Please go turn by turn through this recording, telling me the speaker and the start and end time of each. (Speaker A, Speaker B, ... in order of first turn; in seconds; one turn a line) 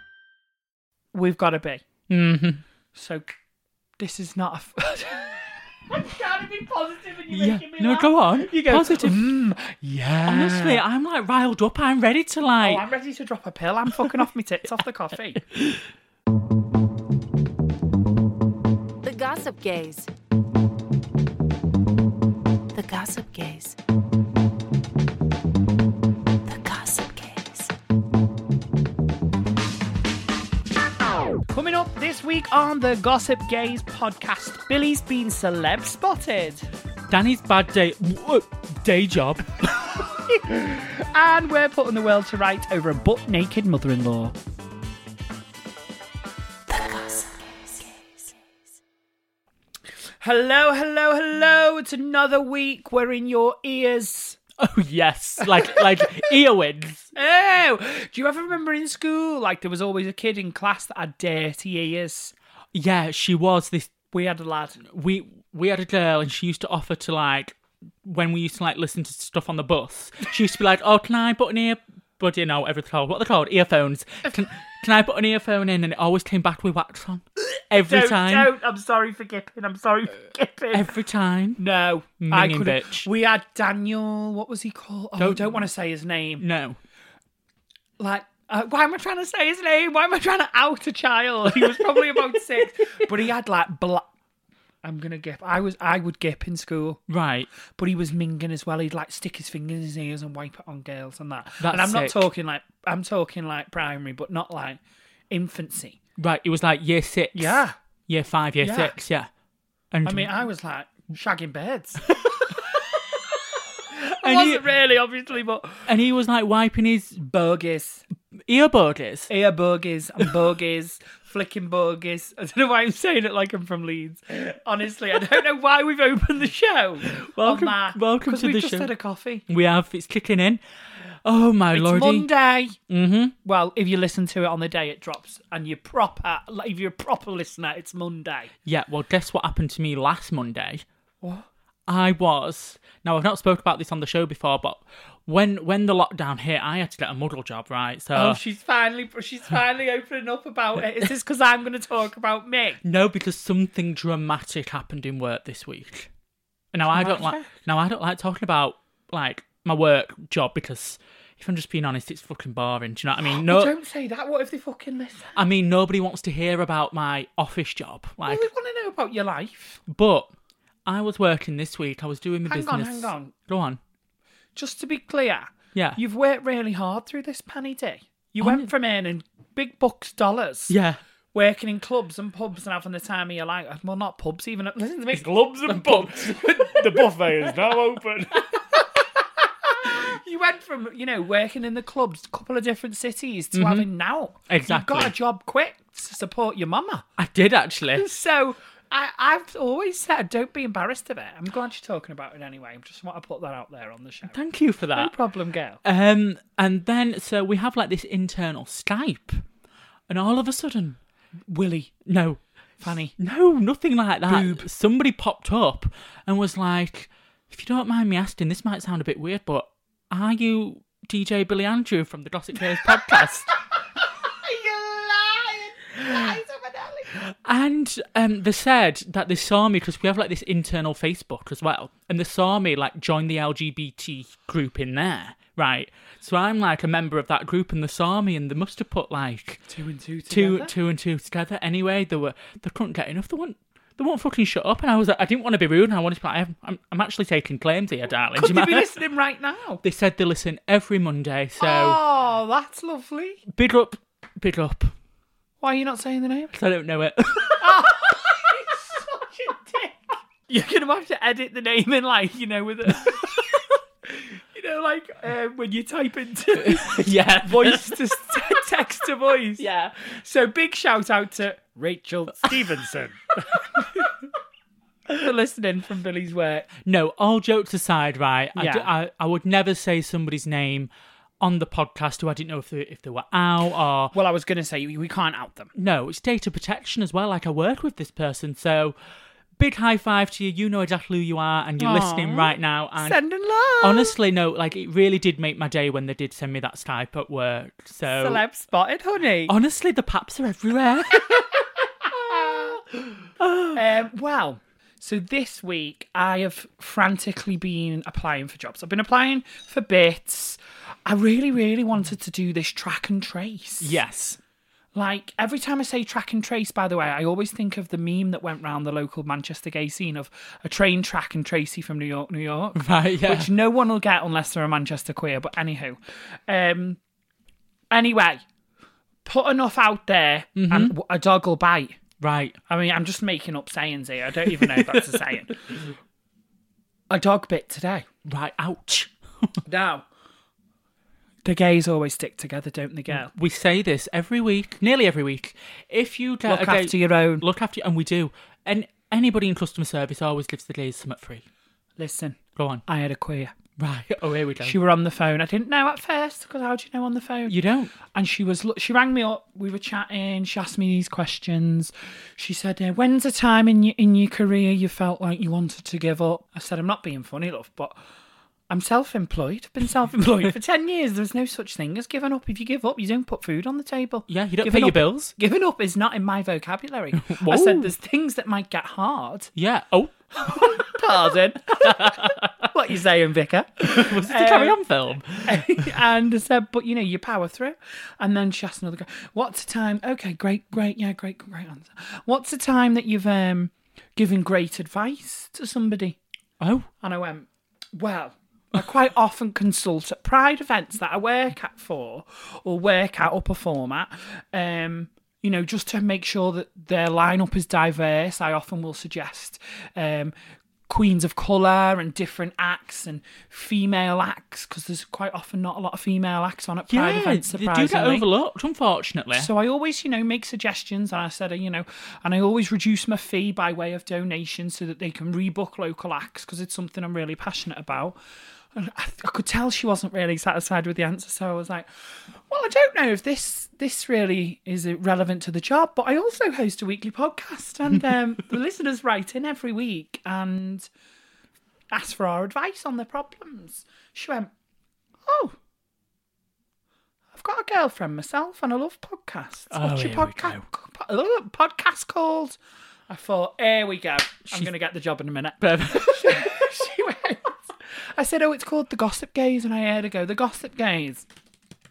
Speaker A: 1.1-1.8
Speaker B: 2.1-2.6
Speaker A: 2.9-3.3
Speaker A: 4.0-10.8
Speaker B: 7.3-9.2
Speaker B: 10.1-12.8
Speaker A: 12.6-15.4
Speaker C: 19.0-20.1
Speaker C: 22.7-23.8
Speaker C: 26.4-27.7
Speaker A: 31.5-36.6
Speaker B: 37.1-39.7
Speaker A: 40.0-44.3
Speaker C: 46.7-48.3
Speaker A: 50.2-54.4
Speaker B: 54.6-57.1
Speaker A: 57.1-62.3
Speaker B: 62.7-63.9
Speaker A: 64.1-64.8
Speaker B: 64.9-78.5
Speaker A: 77.6-80.9
Speaker B: 80.7-81.6
Speaker A: 81.6-86.4
Speaker B: 82.2-83.1
Speaker B: 85.2-85.6
Speaker B: 86.4-86.8
Speaker A: 88.0-94.1
Speaker A: 94.8-97.0
Speaker B: 97.1-97.5
Speaker A: 97.7-106.0
Speaker B: 101.6-102.3
Speaker B: 106.2-109.3
Speaker A: 107.3-107.7
Speaker A: 108.6-109.0
Speaker B: 109.9-110.3
Speaker A: 110.0-112.2
Speaker A: 113.9-115.9
Speaker B: 114.2-114.6
Speaker B: 115.9-117.2
Speaker A: 117.2-118.0
Speaker B: 118.5-119.3
Speaker A: 119.3-129.4
Speaker B: 127.0-128.9
Speaker B: 129.5-132.3
Speaker A: 131.7-132.8
Speaker B: 132.9-133.3
Speaker A: 133.4-138.5
Speaker B: 138.7-140.8
Speaker A: 141.2-141.5
Speaker B: 141.9-148.4
Speaker A: 148.1-152.8
Speaker B: 152.8-156.1
Speaker B: 156.7-163.7
Speaker A: 156.9-157.5
Speaker A: 163.3-165.4
Speaker B: 165.3-168.5
Speaker A: 168.2-169.8
Speaker B: 169.9-170.3
Speaker B: 170.8-173.8
Speaker A: 172.4-173.3
Speaker A: 174.5-180.8
Speaker B: 178.4-178.7
Speaker B: 180.7-181.0
Speaker A: 181.3-197.1
Speaker B: 185.1-187.1
Speaker B: 193.5-193.8
Speaker B: 194.5-195.1
Speaker B: 197.2-198.1
Speaker A: 197.9-204.4
Speaker B: 204.3-205.1
Speaker A: 204.9-205.8
Speaker B: 205.8-209.4
Speaker B: 210.1-211.0
Speaker A: 211.5-211.9
Speaker B: 212.1-223.5
Speaker A: 212.8-213.1
Speaker A: 214.3-214.6
Speaker A: 222.8-223.3
Speaker A: 224.0-227.1
Speaker B: 227.1-239.6
Speaker A: 239.7-240.7
Speaker B: 240.3-248.9
Speaker A: 248.3-249.8
Speaker B: 249.8-252.0
Speaker A: 251.6-253.4
Speaker B: 253.5-254.9
Speaker A: 255.6-256.5
Speaker B: 256.5-257.9
Speaker A: 257.6-263.4
Speaker A: 264.1-274.1
Speaker B: 266.5-268.0
Speaker B: 269.6-269.9
Speaker A: 275.1-276.7
Speaker B: 276.8-280.9
Speaker A: 278.5-278.9
Speaker B: 281.4-284.1
Speaker A: 284.1-285.7
Speaker B: 285.7-288.9
Speaker B: 289.6-293.2
Speaker A: 291.8-294.1
Speaker B: 293.8-298.4
Speaker A: 298.1-299.5
Speaker B: 299.5-301.5
Speaker A: 301.1-303.1
Speaker B: 303.4-303.8
Speaker A: 303.7-314.0
Speaker B: 313.8-314.4
Speaker A: 314.9-327.0
Speaker B: 322.8-323.5
Speaker A: 327.9-328.4
Speaker A: 329.2-332.0
Speaker B: 330.6-330.9
Speaker B: 332.2-332.6
Speaker A: 332.7-335.6
Speaker B: 334.5-335.0
Speaker A: 337.1-338.1
Speaker B: 338.2-339.5
Speaker A: 339.6-340.1
Speaker A: 341.4-343.3
Speaker B: 343.1-351.4
Speaker A: 346.4-347.4
Speaker A: 352.0-353.5
Speaker B: 352.6-352.8
Speaker B: 353.8-354.8
Speaker A: 354.6-368.0
Speaker B: 357.5-357.9
Speaker A: 368.7-379.5
Speaker B: 374.3-375.3
Speaker B: 377.2-377.9
Speaker B: 379.6-380.9
Speaker A: 380.4-384.8
Speaker B: 381.8-382.5
Speaker B: 383.8-386.0
Speaker A: 385.4-396.2
Speaker B: 396.6-396.9
Speaker A: 397.0-410.3
Speaker A: 410.9-418.2
Speaker B: 416.9-419.5
Speaker A: 419.4-428.2
Speaker A: 428.7-431.9
Speaker A: 432.5-440.9
Speaker A: 441.9-444.5
Speaker A: 445.2-445.6
Speaker A: 447.3-452.6
Speaker B: 449.7-450.6
Speaker A: 453.1-461.2
Speaker B: 455.6-456.5